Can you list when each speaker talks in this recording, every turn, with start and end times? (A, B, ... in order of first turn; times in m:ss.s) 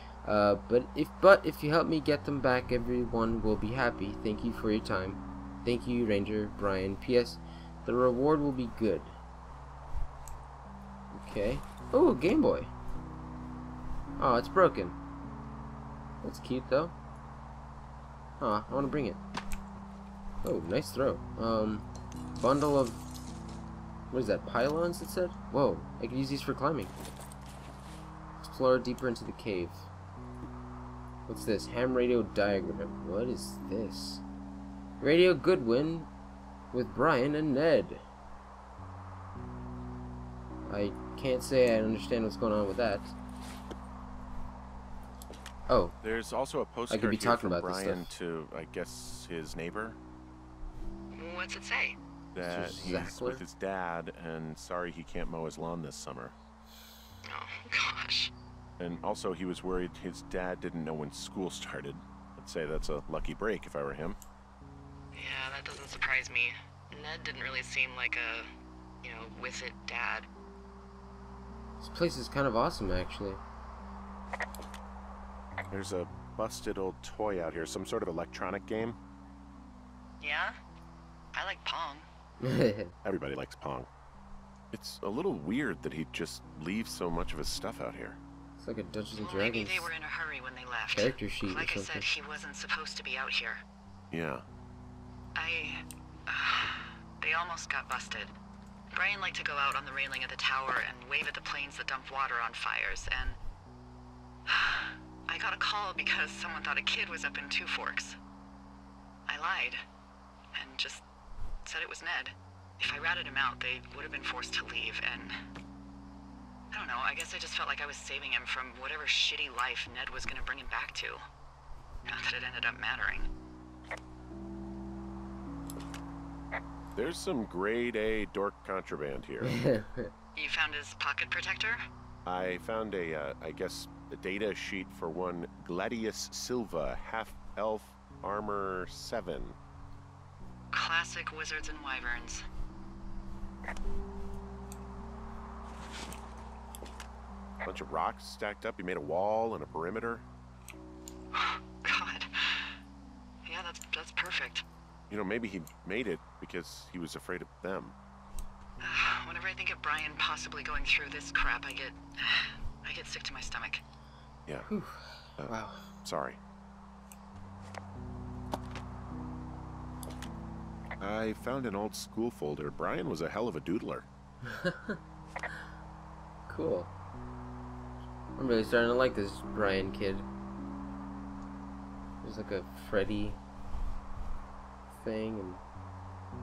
0:00.2-0:09.2 A
0:11.1-0:12.7 A
0:14.2-0:15.0 A
0:16.2-0:16.9 A
0:18.4-0:19.2 A
0:20.4-0:23.0 A
0:24.1-0:26.9 A
0:28.4-0:29.9 A
0:31.3-0:34.2 A
0:35.0-0:36.1 A
0:36.7-0:38.0 A
0:40.6-0:43.1 A
0:45.7-0:46.0 A
0:46.0-0:50.0 B
0:46.9-0:48.1 A
0:51.1-0:52.0 C
0:52.3-0:56.3 B
0:52.4-0:53.4 A
0:57.2-0:58.3 C
0:58.8-1:04.2 B
1:05.1-1:08.5 C
1:09.0-1:10.3 C
1:11.8-1:13.4 A
1:15.7-1:19.0 B
1:20.2-1:20.6 C
1:21.3-1:22.0 C
1:22.4-1:22.9 A
1:23.0-1:23.9 B
1:24.7-1:28.2 B
1:28.6-1:29.9 A
1:29.2-1:33.6 C
1:30.9-1:32.1 A
1:34.1-1:34.4 B
1:35.4-1:38.3 C
1:38.9-1:43.4 C
1:44.5-1:48.2 C
1:49.3-1:49.8 C
1:50.5-1:51.0 C
1:51.6-1:55.4 C
1:56.7-2:01.2 C
2:02.0-2:03.3 C
2:06.9-2:09.5 B
2:09.4-2:10.1 A
2:10.3-2:11.8 C
2:12.2-2:19.6 B
2:20.7-2:22.4 C
2:27.6-2:30.2 B
2:31.3-2:32.8 C
2:33.4-2:34.6 C
2:35.1-2:38.0 B
2:38.8-2:43.8 C
2:44.7-2:45.9 A
2:45.4-2:46.4 B
2:51.0-2:54.1 B
2:54.4-2:55.0 A
2:56.5-2:56.9 A
2:58.4-3:00.2 A
3:02.2-3:03.4 A
3:04.9-3:05.6 A